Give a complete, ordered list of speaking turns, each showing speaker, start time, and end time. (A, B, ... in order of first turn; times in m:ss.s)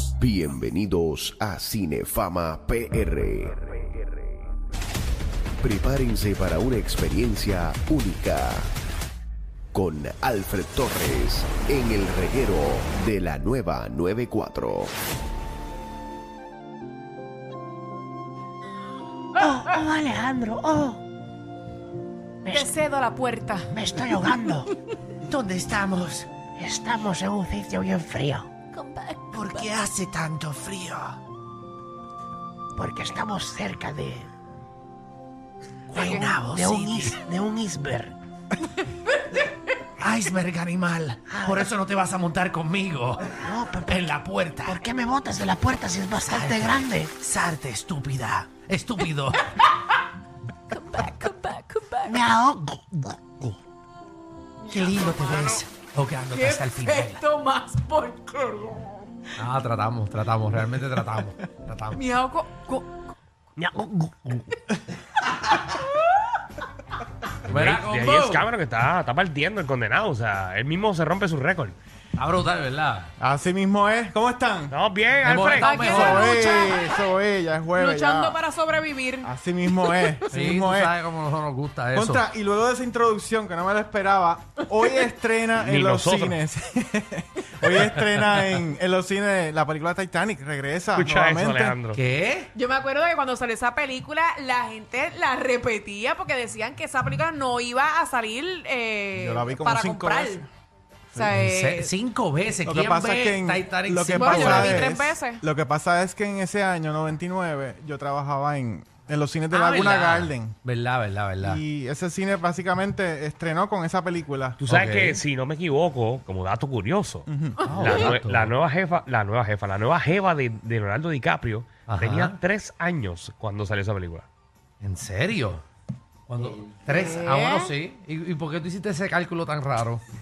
0:00.2-0:03.7 A
0:05.6-0:08.7 A
0:09.7-0:14.9 A
0:19.4-0:21.0 B
0:22.4-0:22.7 B
0:22.5-0:24.5 C
0:23.7-0:24.7 B
0:25.3-0:28.5 B
0:28.7-0:29.7 C
0:29.3-0:31.2 B
0:32.8-0:34.3 B
0:35.9-0:38.1 B
0:35.9-0:37.2 D
0:40.0-0:43.2 D
0:40.2-0:42.3 B
0:43.4-0:48.3 B
0:44.0-0:44.7 D
0:46.0-0:49.5 D
0:50.7-0:52.1 C
0:52.1-0:53.5 B
0:54.7-0:57.2 D
0:54.8-0:55.5 B
0:56.3-0:59.1 C
0:59.4-1:02.0 D
1:01.9-1:03.0 C
1:03.6-1:04.6 E
1:07.5-1:08.5 D
1:07.5-1:11.8 E
1:12.2-1:13.1 D
1:13.2-1:14.8 F
1:14.7-1:15.8 E
1:15.2-1:16.4 D
1:15.6-1:16.9 C
1:15.8-1:18.4 F
1:17.8-1:19.3 C
1:19.2-1:20.9 F
1:20.3-1:22.2 D
1:21.9-1:31.8 F
1:25.6-1:26.4 E
1:30.9-1:32.0 E
1:31.9-1:32.5 D
1:32.5-1:40.4 C
1:39.1-1:40.5 F
1:41.1-1:41.9 C
1:41.2-1:44.9 D
1:42.6-1:50.6 F
1:44.1-1:45.4 C
1:49.5-1:51.6 D
1:51.4-1:54.6 F
1:54.6-2:04.2 E
1:54.7-1:55.2 D
1:57.3-1:57.6 F
1:57.6-1:58.5 D
2:01.9-2:02.4 D
2:04.8-2:05.6 D
2:06.3-2:10.0 D
2:06.9-2:07.7 C